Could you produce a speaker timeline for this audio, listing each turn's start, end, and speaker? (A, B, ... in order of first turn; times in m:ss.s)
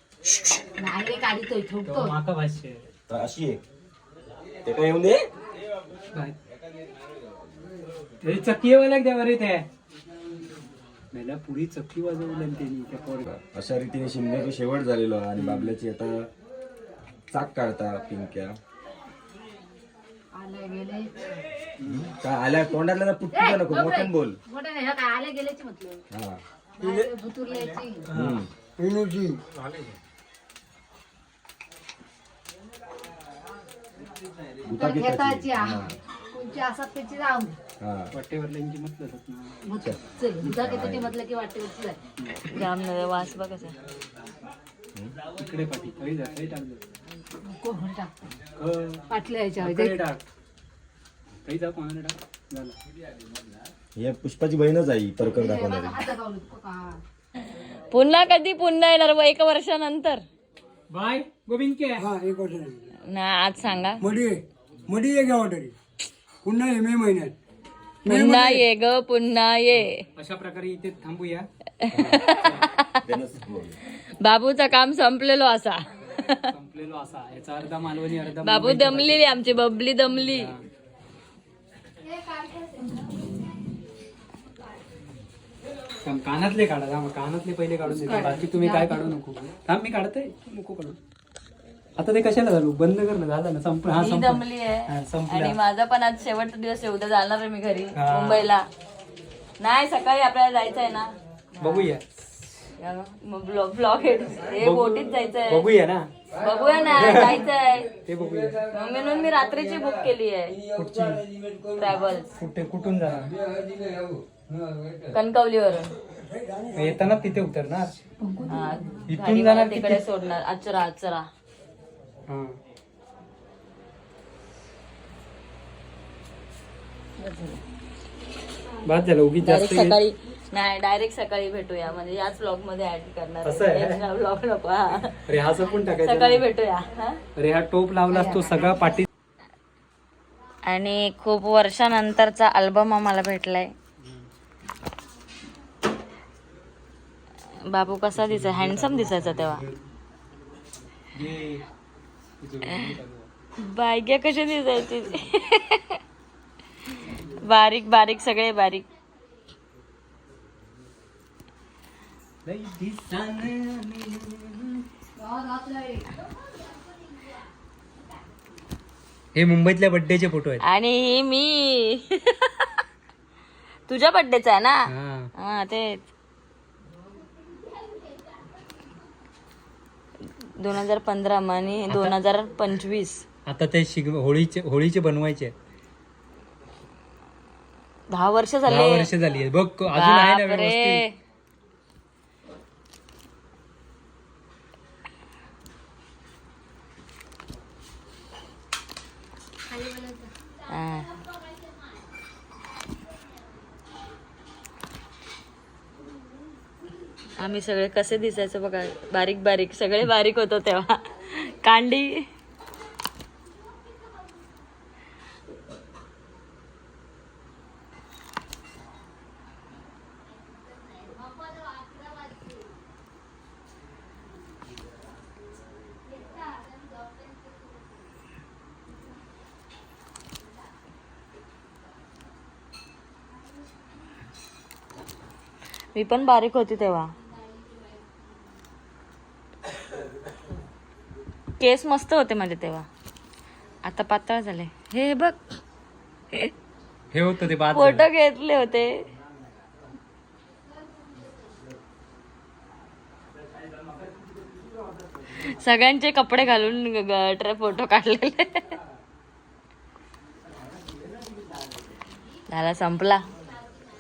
0:00.3-0:00.6 A
0:00.8-0:02.2 B
0:01.8-0:02.8 C
0:03.1-0:03.6 A
0:04.6-0:05.3 A
0:08.2-0:09.7 C
0:11.1-0:13.2 C
0:13.2-0:16.3 A
0:15.4-0:15.8 C
0:17.3-0:18.6 A
0:20.3-0:21.1 B
0:21.8-0:22.1 C
0:21.8-0:24.4 A
0:23.3-0:26.0 B
0:26.1-0:27.1 A
0:26.8-0:28.0 B
0:28.1-0:28.4 C
0:28.1-0:28.5 A
0:28.8-0:29.4 D
0:29.6-0:29.9 C
0:34.6-0:36.0 A
0:34.7-0:37.6 B
0:37.8-0:38.1 A
0:38.1-0:39.6 C
0:39.6-0:42.0 B
0:40.6-0:41.2 A
0:42.2-0:42.5 C
0:42.4-0:43.8 E
0:45.4-0:46.8 C
0:47.4-0:48.1 B
0:48.6-0:50.2 C
0:49.1-0:49.9 B
0:51.4-0:52.8 C
0:54.0-0:56.0 A
0:55.3-0:57.0 B
0:57.5-1:00.2 E
1:00.9-1:02.1 C
1:02.0-1:02.9 D
1:03.0-1:04.0 E
1:04.0-1:05.8 D
1:06.4-1:07.4 D
1:08.0-1:10.0 E
1:08.1-1:08.6 D
1:09.8-1:12.6 C
1:11.8-1:13.0 E
1:13.0-1:13.8 A
1:14.2-1:16.5 E
1:16.2-1:19.2 C
1:18.4-1:20.5 E
1:20.3-1:20.6 C
1:22.1-1:22.8 B
1:26.0-1:31.0 C
1:27.9-1:29.1 B
1:32.0-1:35.6 C
1:33.9-1:38.6 E
1:38.0-1:38.5 C
1:39.6-1:42.0 E
1:41.6-1:42.2 C
1:42.8-1:45.7 E
1:44.5-1:46.1 C
1:46.4-1:47.9 E
1:46.4-1:46.8 D
1:47.0-1:47.5 C
1:48.0-1:48.7 C
1:48.2-1:50.0 D
1:48.7-1:50.6 E
1:50.6-1:51.9 D
1:50.7-1:51.2 C
1:51.7-1:52.4 E
1:52.4-1:53.3 C
1:53.1-1:55.1 D
1:55.1-1:55.9 E
1:56.3-1:57.1 D
1:56.7-1:57.9 C
1:58.4-2:01.3 E
1:59.1-2:00.0 C
2:02.3-2:02.6 C
2:07.2-2:07.6 E
2:08.8-2:10.0 C
2:09.4-2:15.3 E
2:13.4-2:14.0 C
2:15.2-2:16.4 C
2:16.0-2:17.2 E
2:17.4-2:19.1 C
2:18.1-2:18.8 B
2:20.6-2:23.7 E
2:24.0-2:24.3 C
2:27.5-2:29.6 E
2:28.2-2:29.9 C
2:31.1-2:31.7 C
2:32.4-2:33.3 C
2:33.6-2:36.0 E
2:37.0-2:38.9 E
2:42.4-2:44.9 C
2:45.2-2:46.1 B
2:49.3-2:50.6 C
2:50.6-2:52.8 E
2:53.9-2:54.8 E
2:54.9-2:55.3 C
2:55.4-2:56.1 E
3:00.4-3:03.2 E
3:01.9-3:02.2 C
3:03.5-3:05.5 C
3:08.1-3:09.1 E
3:08.7-3:11.0 C
3:09.9-3:11.2 E
3:19.7-3:20.3 B
3:20.7-3:21.2 E
3:27.4-3:32.3 E
3:55.9-3:57.2 E
4:01.6-4:02.9 E
4:03.8-4:05.4 E
4:07.1-4:08.1 C
4:07.7-4:09.0 E
4:15.3-4:18.8 E
4:22.5-4:23.2 E